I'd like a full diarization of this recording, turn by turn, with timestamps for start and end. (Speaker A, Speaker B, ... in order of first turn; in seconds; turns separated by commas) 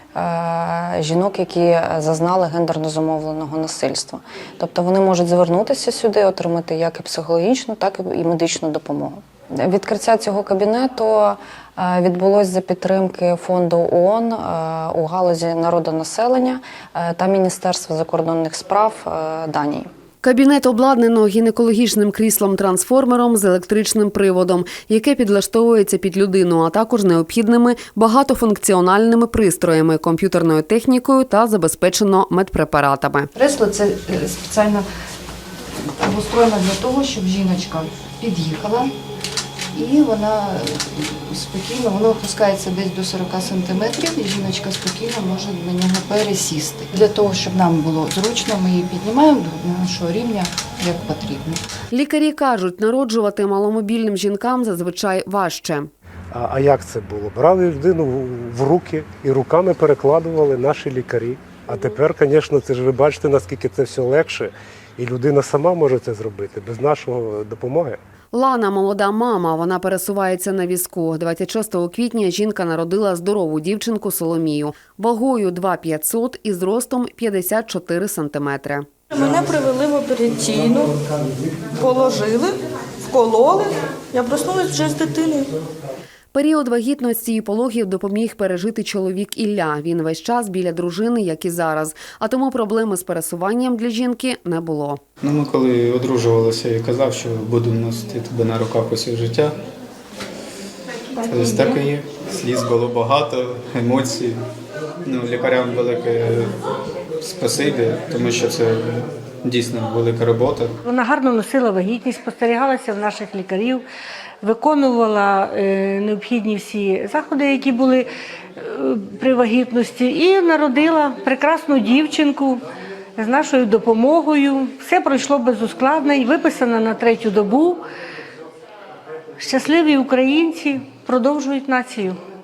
Speaker A: 0.1-19.9, Speaker B: 20.2-33.3, Speaker C: 33.3-34.8, Speaker C: 35.8-38.9, Speaker C: 39.7-51.6, Speaker B: 51.9-55.9, Speaker D: 56.3-68.0, Speaker B: 68.3-78.9, Speaker E: 79.1-81.0, Speaker E: 81.6-85.5, Speaker B: 86.3-95.0, Speaker F: 95.2-99.5, Speaker F: 101.2-104.4, Speaker F: 105.0-106.5, Speaker F: 107.2-110.8, Speaker G: 110.8-113.8, Speaker G: 114.4-122.6, Speaker G: 123.2-127.8, Speaker G: 129.4-132.2